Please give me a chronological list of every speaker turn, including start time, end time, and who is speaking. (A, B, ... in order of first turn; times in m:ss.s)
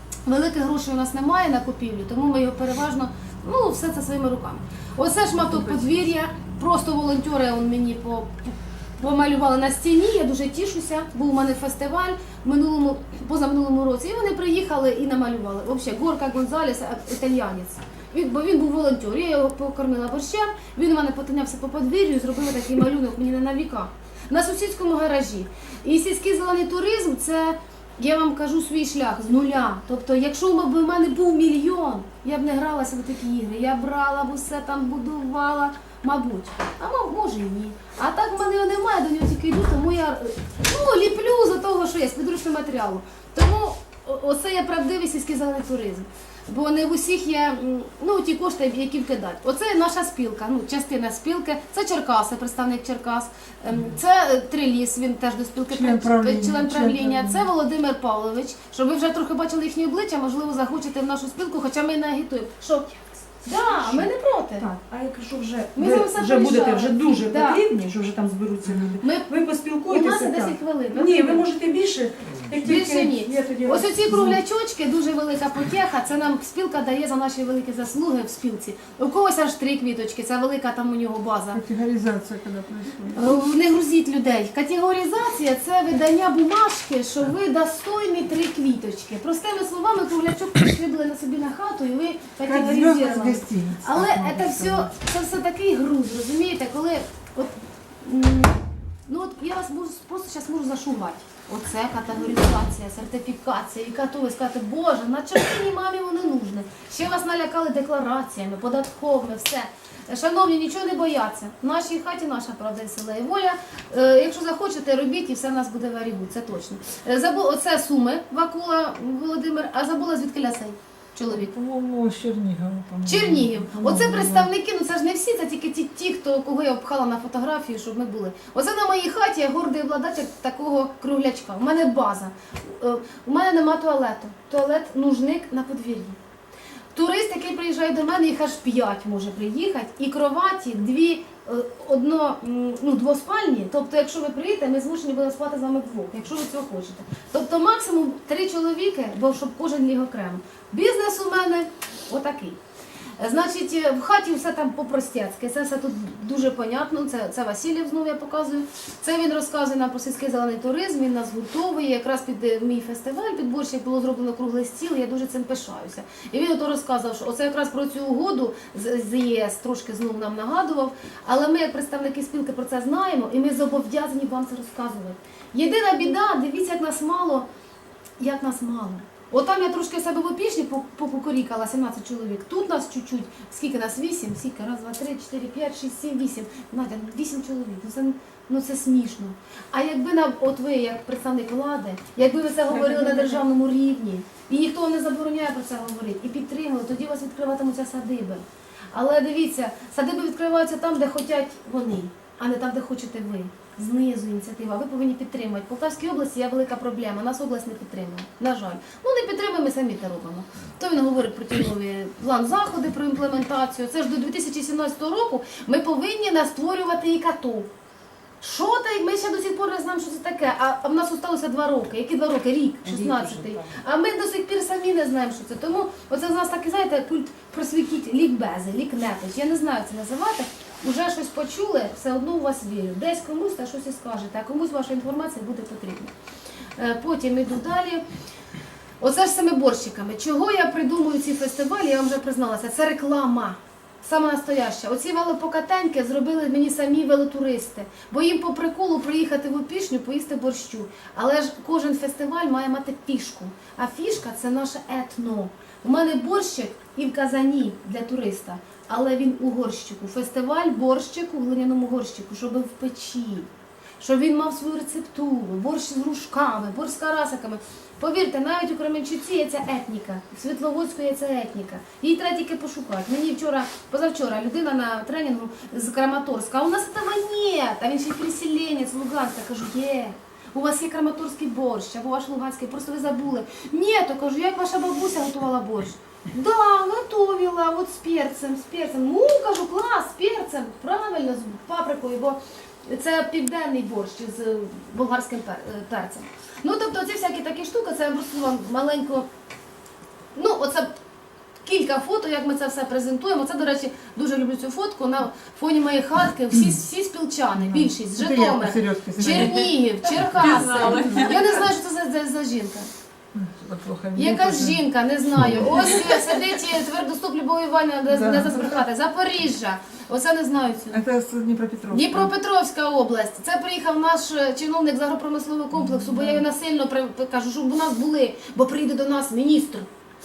0:00.3-1:04.7 A
0:05.6-0:05.9 B
0:55.7-0:57.5 B
1:03.7-1:04.1 C
1:04.6-1:14.3 C
1:05.8-1:07.6 A
1:09.0-1:09.3 A
1:09.8-1:11.5 A
1:12.6-1:21.6 A
1:21.5-1:23.2 B
1:23.1-2:01.5 A
1:32.4-1:34.9 B
2:01.3-2:04.5 B
2:03.0-2:16.2 A
2:16.9-2:32.6 A
2:33.2-2:57.5 A
2:58.2-3:37.7 A
3:12.7-3:13.4 B
3:38.4-3:56.1 A
3:42.8-3:43.8 B
3:56.8-3:58.0 A
3:59.0-4:23.5 A
4:24.0-4:59.3 A
5:00.4-5:01.0 A
5:01.6-5:12.9 A
5:07.6-5:09.8 B
5:10.4-5:11.3 B
5:10.7-5:11.1 C
5:13.3-5:14.8 B
5:14.2-5:21.0 A
5:15.4-5:15.8 B
5:18.1-5:18.8 B
5:20.9-5:22.3 B
5:21.9-5:29.9 A
5:25.8-5:26.4 B